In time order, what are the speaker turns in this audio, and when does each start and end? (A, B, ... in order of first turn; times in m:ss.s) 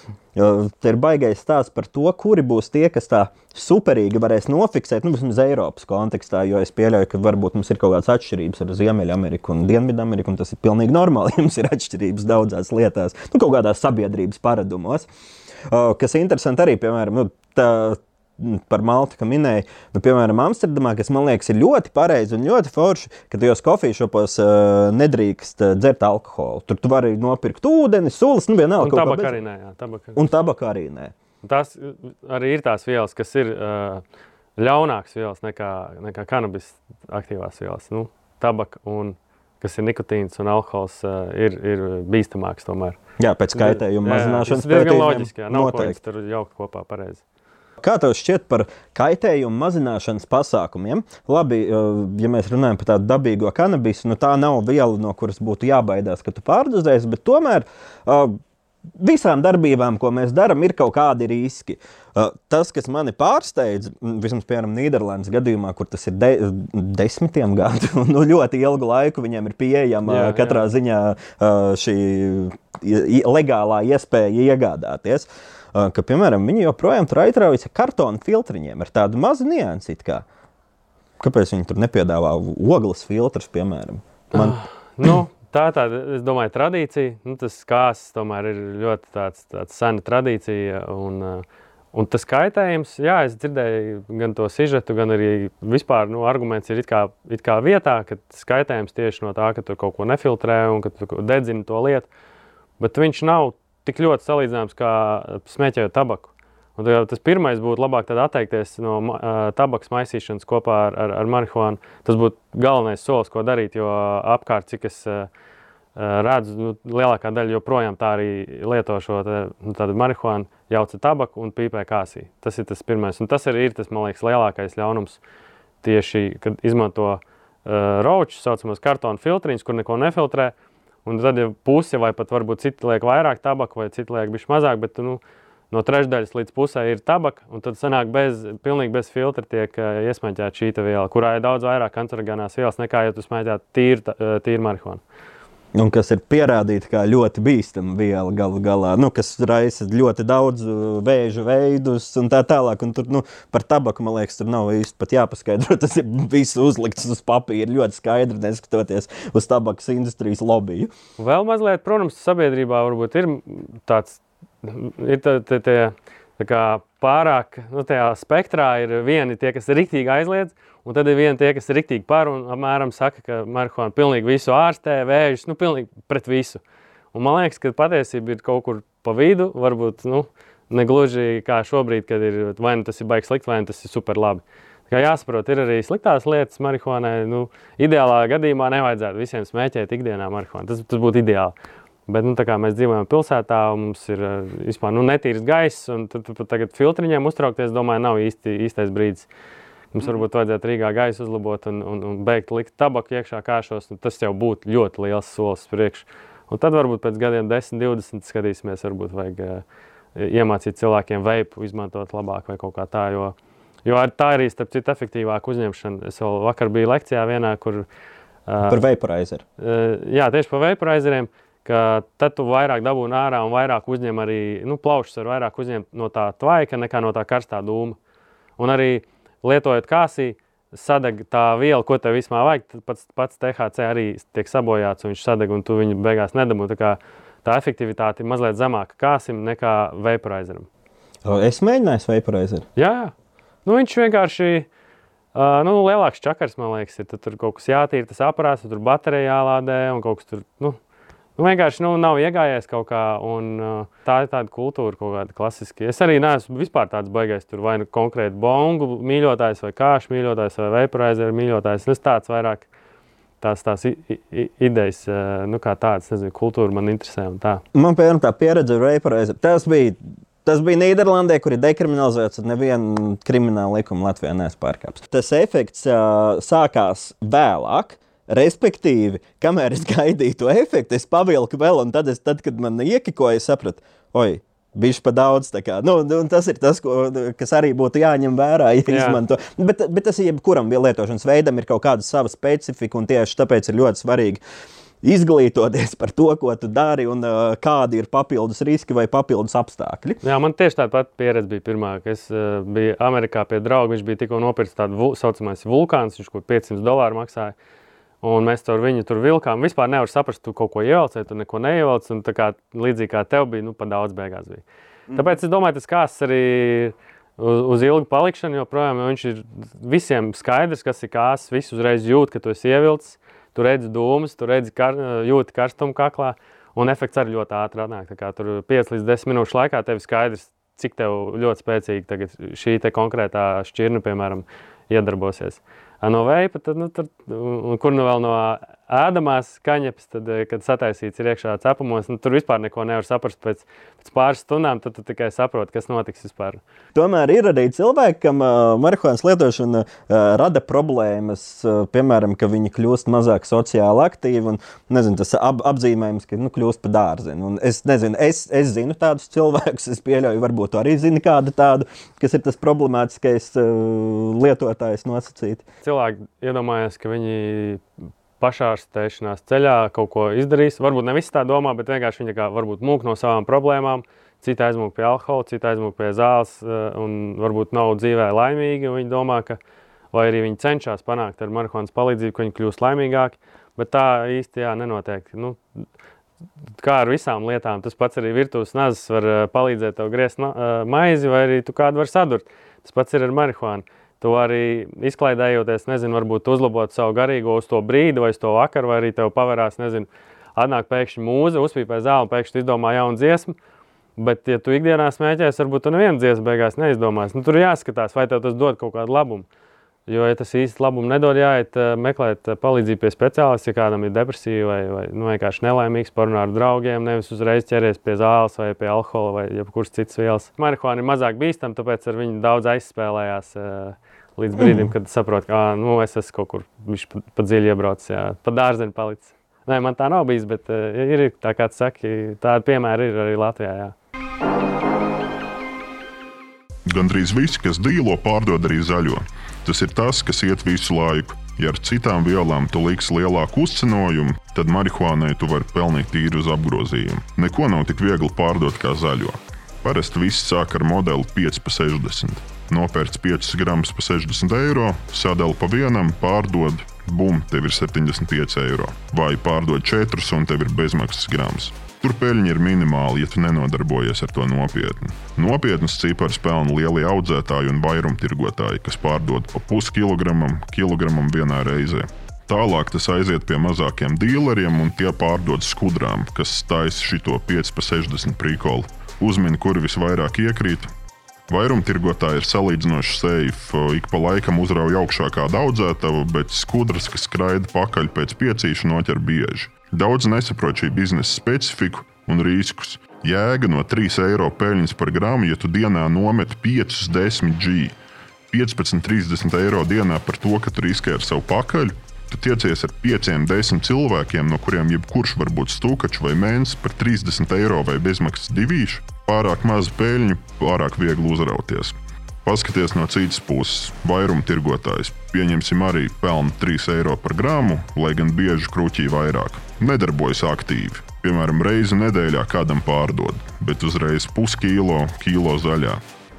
0:00.4-0:15.1 A
0:15.7-0:29.4 A
0:28.8-0:30.2 B
0:30.2-0:31.1 A
0:31.4-0:34.0 B
0:34.6-0:43.0 B
0:43.2-0:46.0 A
0:43.5-0:47.2 B
0:47.8-0:58.4 A
0:59.0-1:20.2 A
1:10.0-1:10.6 B
1:21.2-1:25.1 A
1:24.3-1:42.1 B
1:42.8-1:55.3 B
1:56.0-2:05.2 B
2:05.8-2:10.5 B
2:11.0-2:25.0 B
2:25.8-2:40.9 A
2:41.2-2:56.6 B
2:57.1-3:11.6 B
3:12.1-3:19.3 B
3:19.9-3:29.6 B
3:30.2-3:37.9 B
3:38.5-3:38.8 B
3:38.7-3:39.4 A
3:39.6-3:48.0 B
3:48.6-4:00.7 B
4:01.2-4:02.7 A
4:02.8-4:03.1 B
4:03.6-4:04.7 B
4:05.4-4:10.8 B
4:11.4-4:22.7 B
4:23.4-4:27.6 B
4:27.7-4:54.4 A
4:48.9-4:49.2 B
4:55.0-5:00.2 A
5:00.2-5:07.6 B
5:08.2-5:46.6 B
5:47.0-6:05.6 A
6:05.8-6:07.8 B
6:08.4-6:19.6 B
6:20.1-6:25.6 B
6:26.8-6:43.6 B
6:44.2-6:49.5 B
6:50.1-7:14.0 B
7:04.6-7:04.8 A
7:16.9-8:00.9 C
8:01.5-8:18.0 C
8:18.5-8:46.0 C